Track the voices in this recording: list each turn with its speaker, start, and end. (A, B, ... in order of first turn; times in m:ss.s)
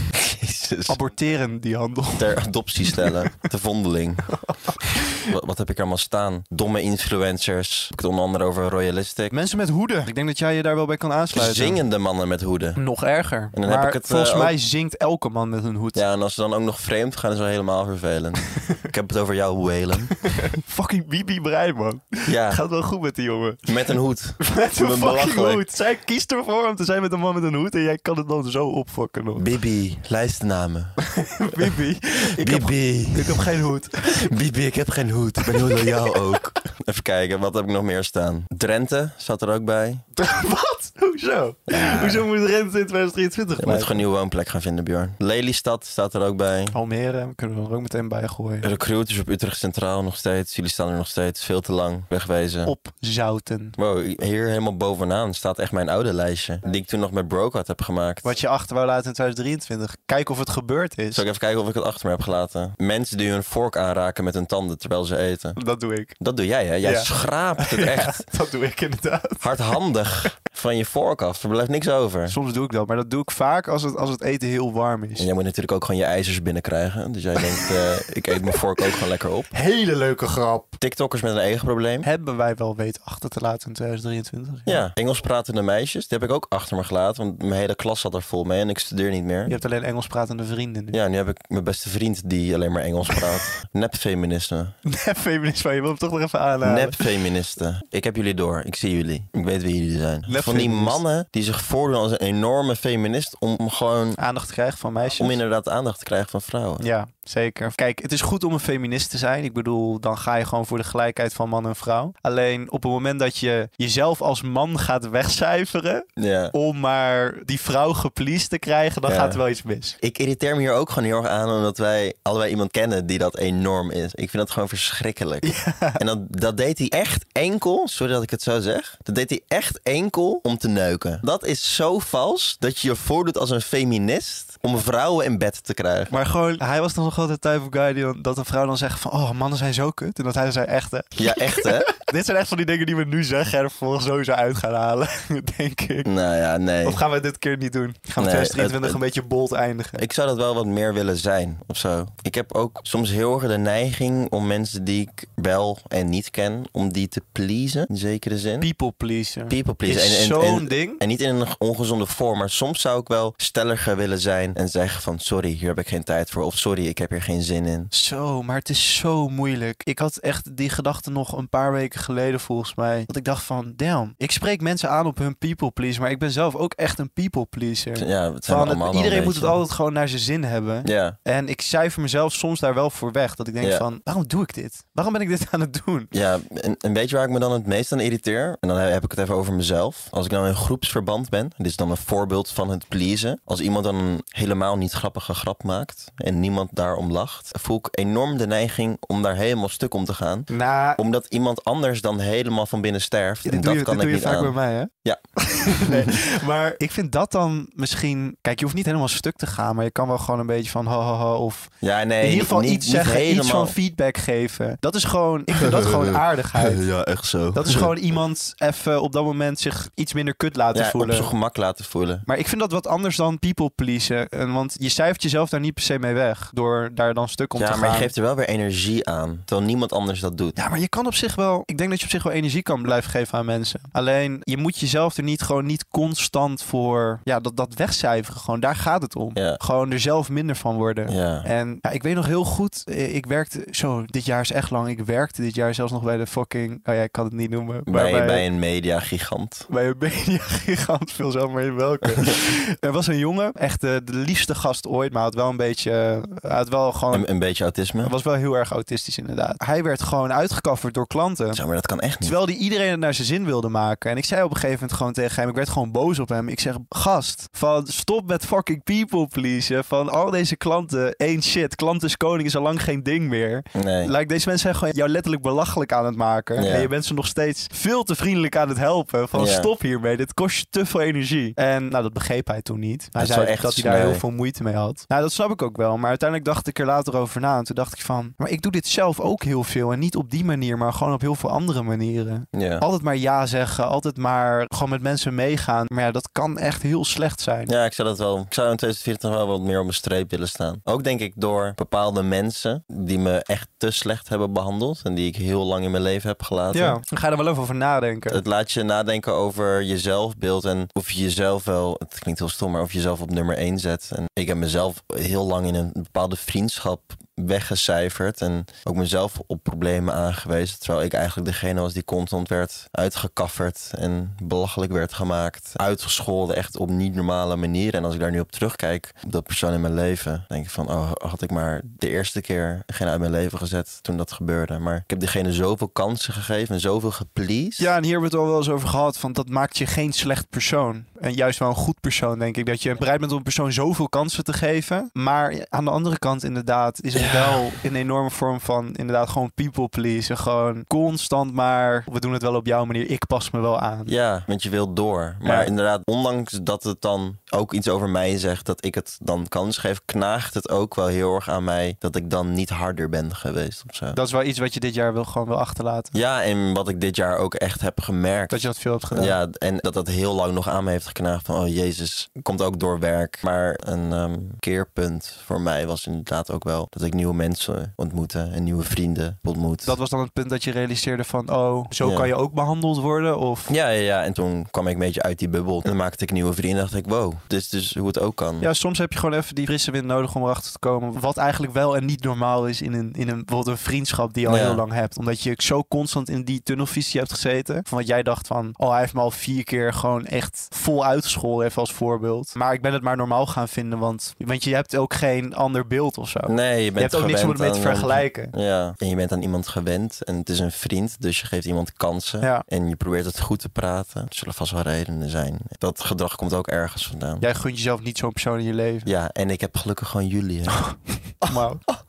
0:00.1-0:01.0 A
0:00.9-0:03.3 B
0:02.2-0:04.4 A
0:04.3-0:05.3 B
0:05.1-0:09.3 A
0:09.3-0:11.8 B
0:11.3-0:12.8 A
0:12.8-0:16.0 B
0:13.5-0:14.5 A
0:15.9-0:20.2 A
0:20.2-0:29.5 B
0:22.2-0:22.6 A
0:23.6-0:25.6 A
0:29.4-0:31.0 A
0:31.0-0:34.3 B
0:32.4-0:40.0 A
0:35.4-0:36.4 B
0:40.2-0:44.0 B
0:41.7-0:42.2 A
0:43.6-0:46.8 A
0:46.7-0:48.7 B
0:48.6-0:52.7 A
0:52.6-0:53.8 B
0:53.8-0:58.3 A
0:58.2-1:01.2 B
1:01.1-1:05.6 A
1:05.6-1:06.2 B
1:06.2-1:08.2 A
1:06.8-1:09.5 B
1:09.4-1:12.4 A
1:12.3-1:15.3 B
1:15.2-1:19.5 A
1:17.4-1:17.8 B
1:18.5-1:18.8 B
1:19.5-1:20.8 B
1:20.8-1:22.1 A
1:22.0-1:24.8 B
1:24.6-1:29.6 A
1:29.5-1:31.0 B
1:30.9-1:34.7 A
1:33.1-1:33.4 B
1:34.8-1:37.1 B
1:36.6-1:44.2 A
1:40.3-1:41.0 B
1:44.2-1:45.4 B
1:45.1-1:46.8 A
1:46.8-2:00.0 B
1:56.2-1:56.5 A
1:59.0-1:59.4 A
2:00.0-2:16.1 A
2:05.4-2:06.0 B
2:16.1-2:26.1 B
2:21.2-2:21.9 A
2:26.0-2:27.0 A
2:26.8-2:30.0 B
2:28.2-2:29.0 A
2:30.0-2:38.7 A
2:38.6-2:41.0 B
2:39.5-2:47.9 A
2:47.9-3:06.1 B
2:58.0-2:59.6 A
3:00.8-3:01.2 A
3:06.1-3:26.2 A
3:20.5-3:21.0 B
3:23.4-3:36.8 B
3:31.8-3:33.7 A
3:35.5-3:37.9 A
3:37.5-3:41.3 B
3:40.7-3:42.2 A
3:42.2-3:48.1 B
3:47.6-3:50.6 A
3:50.6-4:08.4 B
4:01.1-4:01.5 A
4:07.9-4:09.7 A
4:09.7-4:17.3 B
4:17.1-4:18.1 A
4:18.0-4:21.6 B
4:21.5-4:22.3 A
4:22.2-4:57.7 B
4:33.7-4:34.1 A
4:36.6-4:36.9 A
4:39.3-4:39.7 A
4:43.2-4:44.2 A
4:52.5-4:52.8 A
4:57.7-5:07.0 A
5:06.7-5:08.4 B
5:08.3-5:37.9 A
5:37.8-5:54.1 B
5:47.1-5:47.8 A
5:54.1-6:04.2 A
5:55.4-5:55.7 B
6:04.1-6:06.1 B
6:06.1-6:19.9 A
6:08.5-6:09.4 B
6:19.8-6:23.7 B
6:22.0-6:22.3 A
6:23.7-6:28.7 A
6:28.6-6:48.5 B
6:34.4-6:34.8 A
6:46.5-6:57.5 A
6:57.4-6:59.1 B
6:59.0-7:00.9 A
7:00.7-7:01.8 B